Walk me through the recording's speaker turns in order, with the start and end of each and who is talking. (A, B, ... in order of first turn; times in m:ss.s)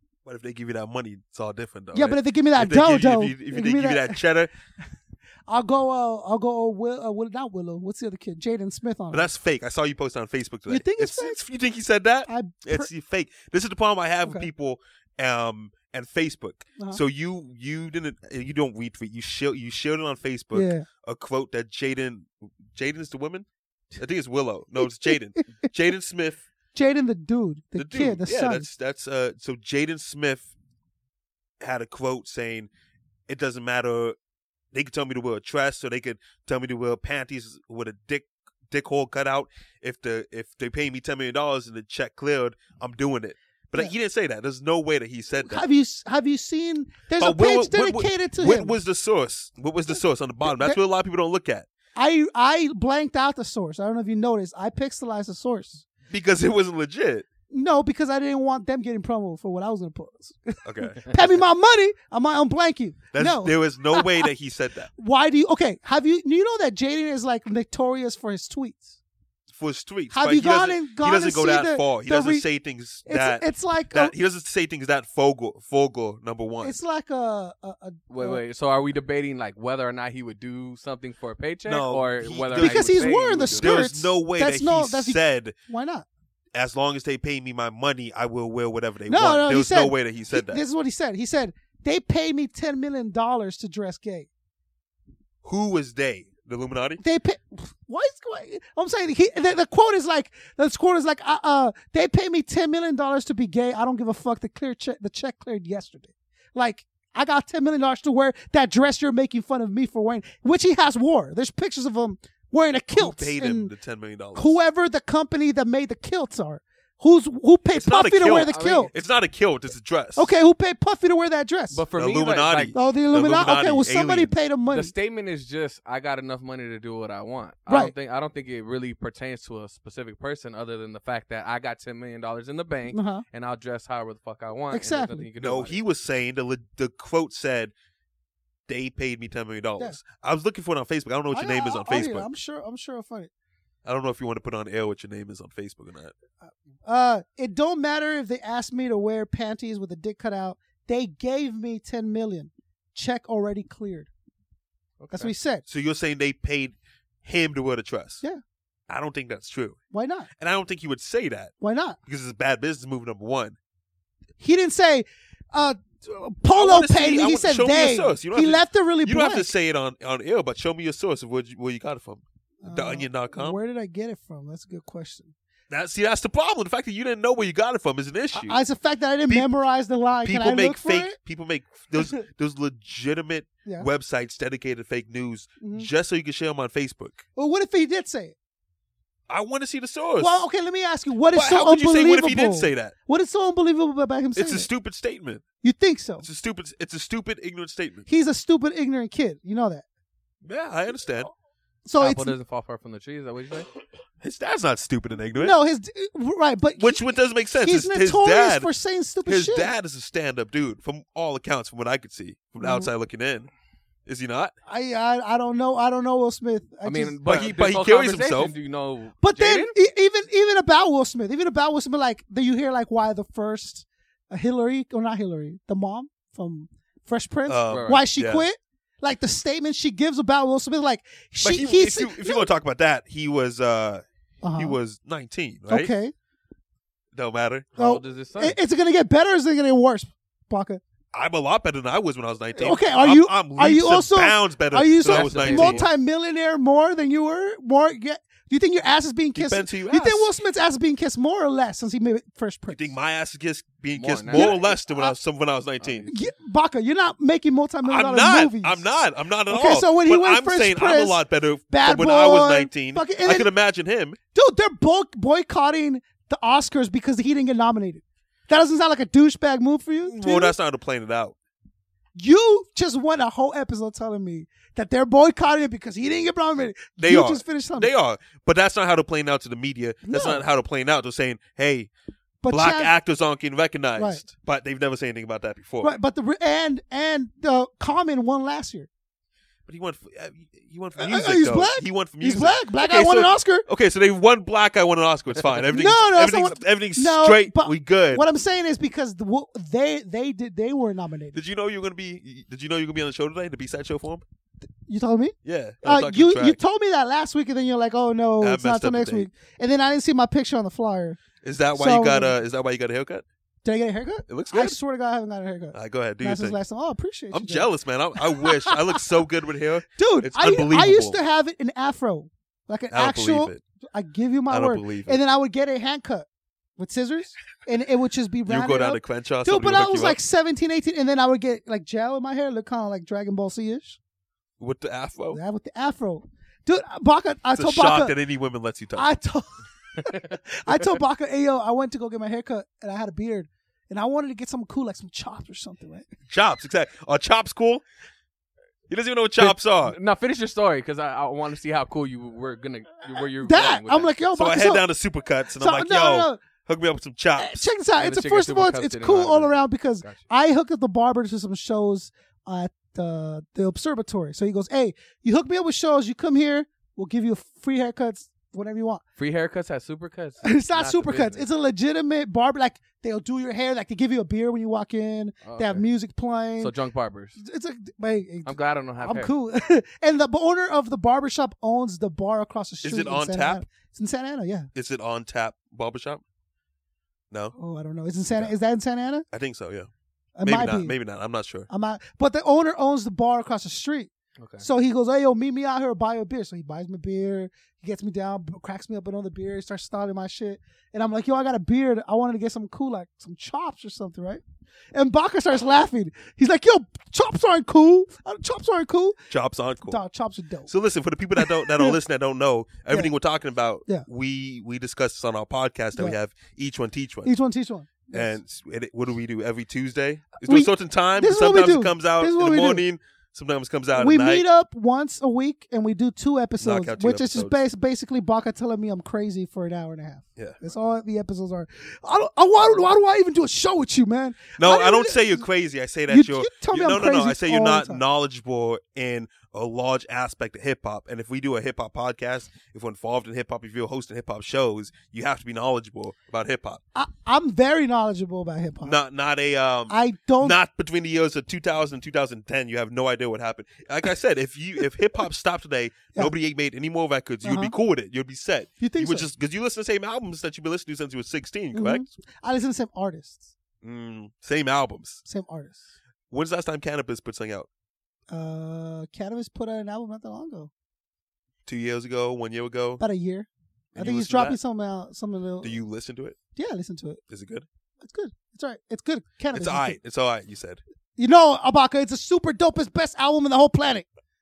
0:00.2-0:04.5 A
0:01.9-0:04.2 B
0:05.5-0:09.3 B
0:09.1-0:26.4 A
0:10.7-0:11.4 B
0:12.3-0:12.9 B
0:20.5-0:20.8 B
0:25.4-0:25.7 B
0:26.7-0:28.7 B
0:27.8-0:30.5 A
0:31.6-0:32.7 A
0:33.3-0:34.2 A
0:34.7-0:45.6 A
0:45.5-0:48.8 B
0:47.2-0:51.7 A
0:50.5-0:50.8 B
0:52.0-0:55.8 B
0:56.1-0:57.3 A
0:57.5-1:04.3 B
1:00.6-1:01.2 A
1:03.1-1:04.9 A
1:05.0-1:09.0 B
1:09.5-1:16.8 A
1:10.1-1:12.4 B
1:13.0-1:14.1 B
1:16.6-1:18.4 B
1:18.1-1:23.8 C
1:21.7-1:25.5 A
1:22.5-1:26.0 B
1:26.5-1:30.6 A
1:29.1-1:34.3 B
1:35.4-1:37.0 A
1:37.0-1:53.7 B
1:52.9-1:54.6 A
1:54.3-1:58.9 B
1:57.7-2:00.3 A
1:58.3-1:58.9 C
2:00.1-2:01.8 B
2:01.7-2:02.8 C
2:01.9-2:04.3 A
2:02.7-2:04.9 B
2:04.7-2:15.8 C
2:07.7-2:07.9 B
2:12.9-2:13.2 B
2:14.7-2:15.3 B
2:15.4-2:17.7 A
2:18.7-2:22.2 A
2:21.3-2:23.3 B
2:23.8-2:26.1 A
2:26.4-2:34.1 B
2:35.0-2:35.3 C
2:35.1-2:35.6 B
2:35.7-2:38.2 A
2:38.9-2:39.8 A
2:39.9-2:40.3 B
2:40.4-2:41.5 A
2:41.6-2:42.0 B
2:42.0-2:43.6 A
2:44.4-2:49.5 B
2:46.5-2:53.6 A
2:52.6-2:55.3 B
2:55.7-2:58.6 A
2:58.3-3:01.2 B
3:00.2-3:07.2 A
3:02.0-3:02.2 B
3:05.6-3:05.9 B
3:07.4-3:08.3 B
3:09.3-3:10.4 A
3:10.2-3:14.7 B
3:11.3-3:12.9 A
3:14.3-3:15.4 A
3:15.6-3:16.2 B
3:16.2-3:18.0 A
3:18.1-3:19.8 B
3:20.4-3:21.3 A
3:21.8-3:22.3 B
3:22.0-3:23.7 C
3:24.2-3:25.5 A
3:25.4-3:27.0 B
3:26.8-3:28.7 A
3:27.6-3:29.7 B
3:29.2-3:33.5 A
3:32.6-3:32.9 B
3:34.0-3:34.5 A
3:34.6-3:37.2 B
3:36.8-3:39.7 C
3:37.2-3:38.5 A
3:39.2-3:52.5 B
3:47.5-3:48.4 A
3:47.7-3:48.0 C
3:51.4-3:54.0 A
3:54.4-3:54.8 B
3:54.5-3:55.9 A
3:55.7-3:56.1 B
3:57.1-3:57.8 A
3:57.8-3:58.6 C
3:57.8-4:00.8 B
4:01.1-4:05.9 A
4:02.5-4:12.9 B
4:05.0-4:05.9 C
4:09.3-4:10.3 A
4:12.7-4:16.1 A
4:14.0-4:14.6 C
4:14.3-4:15.1 B
4:15.8-4:16.3 C
4:16.1-4:18.9 B
4:17.8-4:24.2 A
4:19.5-4:23.5 B
4:24.3-4:30.5 B
4:30.0-4:31.3 A
4:32.1-4:37.9 B
4:37.0-4:41.9 A
4:40.0-4:40.4 B
4:42.4-4:42.9 B
4:42.5-4:45.9 A
4:44.0-4:44.2 B
4:45.8-4:48.9 B
4:49.6-4:58.2 A
4:51.0-4:53.6 B
4:55.6-5:01.4 B
5:01.3-5:04.2 A
5:04.9-5:11.2 B
5:05.4-5:06.6 A
5:08.4-5:09.3 A
5:11.4-5:13.2 A
5:11.8-5:12.4 B
5:13.6-5:17.7 B
5:14.3-5:14.8 A
5:15.7-5:16.6 A
5:17.3-5:21.2 A
5:18.3-5:19.0 B
5:19.9-5:26.2 B
5:22.9-5:23.6 A
5:24.5-5:25.2 A
5:26.8-5:34.0 B
5:28.5-5:30.2 A
5:34.6-5:35.4 A
5:35.3-5:38.2 B
5:37.6-5:39.1 A
5:38.9-5:46.0 B
5:46.3-5:47.8 A
5:48.9-5:50.0 A
5:49.4-5:54.1 C
5:53.4-5:54.8 B
5:54.3-5:57.7 A
5:55.6-5:56.4 B
5:57.4-6:09.0 B
5:58.0-6:00.2 C
6:09.2-6:11.4 C
6:10.4-6:16.7 B
6:15.4-6:15.8 C
6:16.6-6:17.4 C
6:17.4-6:24.7 B
6:18.4-6:19.3 C
6:22.8-6:23.6 A
6:24.7-6:26.2 A
6:27.6-6:29.2 B
6:29.3-6:29.9 A
6:30.4-6:30.9 B
6:30.4-6:31.7 A
6:31.7-6:44.4 B
6:34.4-6:34.6 C
6:44.9-6:49.2 B
6:49.3-6:50.0 A
6:49.9-6:50.7 B
6:50.7-6:57.3 A
6:51.4-6:52.0 B
6:57.2-6:58.3 B
6:58.1-7:04.4 A
7:00.4-7:02.8 B
7:03.9-7:15.5 B
7:06.6-7:07.5 A
7:14.6-7:26.8 A
7:16.1-7:18.0 B
7:26.9-7:29.0 B
7:28.8-7:42.0 A
7:29.9-7:30.6 B
7:37.4-7:37.7 B
7:38.8-7:39.3 B
7:41.7-7:43.5 B
7:43.8-7:45.2 A
7:45.2-7:45.8 B
7:46.3-7:47.7 A
7:48.3-7:50.7 B
7:51.6-7:53.0 A
7:53.0-7:55.8 B
7:53.9-7:54.6 A
7:55.6-7:56.4 A
7:56.6-7:57.2 B
7:57.3-7:57.6 A
7:58.0-8:00.0 B
7:59.5-8:00.8 A
8:01.2-8:04.0 B